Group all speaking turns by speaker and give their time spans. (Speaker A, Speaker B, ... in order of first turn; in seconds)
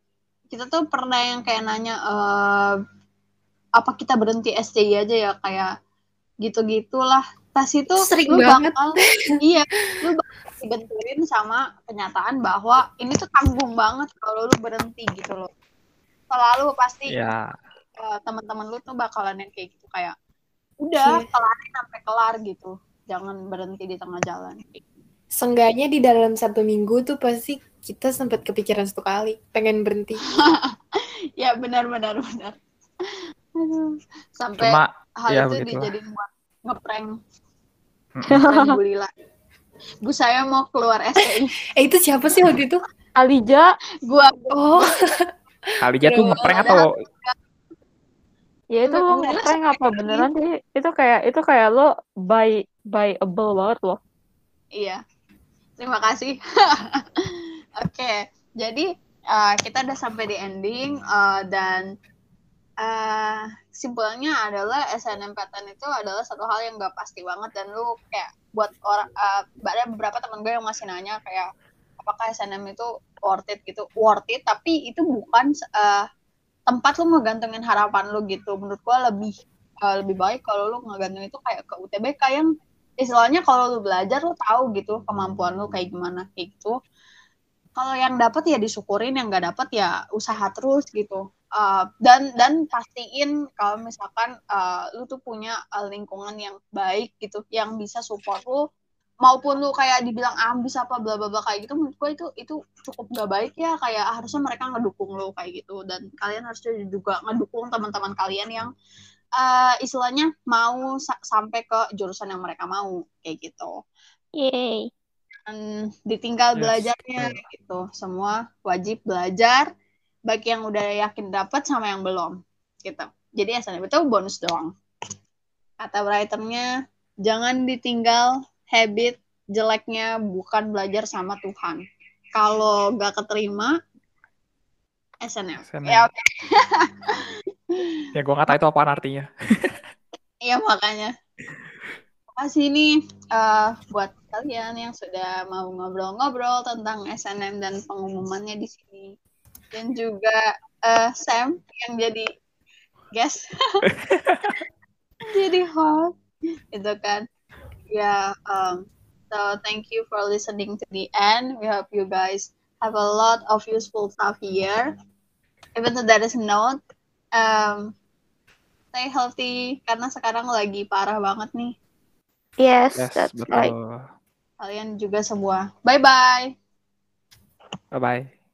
Speaker A: 0.5-2.8, 3.8-5.7, 6.4-15.5, 16.3-17.1, 18.0-20.1, 20.8-24.8, 30.3-37.1, 38.3-39.1, 40.0-41.5, 44.1-44.8, 46.5-47.4, 48.9-50.3, 55.8-57.2, 57.8-61.9, 62.8-71.5, 72.0-76.0, 76.7-82.5, 83.0-86.7, 87.8-98.6, 99.2-108.7, 109.4-113.8, 115.5-119.7, 120.3-124.7, 125.8-126.7, 127.2-131.8, 132.3-133.8, 135.2-138.0, 140.4-141.1, 142.3-149.1, 149.7-152.3, 153.1-153.8, 155.3-156.1, 156.7-157.2, 157.9-164.9, 165.8-166.8, 167.4-167.9, 168.9-171.7, 174.6-176.5
Speaker B: 8.0-9.3, 21.0-21.3, 25.4-30.2, 41.8-42.8, 44.5-45.2, 46.0-46.8
Speaker C: 17.1-17.5, 34.6-35.9, 38.1-38.4, 45.8-46.9, 116.6-117.5, 135.7-136.1, 138.2-139.8, 154.1-154.5, 173.0-174.0, 177.9-178.3
Speaker D: 38.3-38.7, 43.2-43.7, 48.7-54.0, 114.4-114.9, 172.6-173.7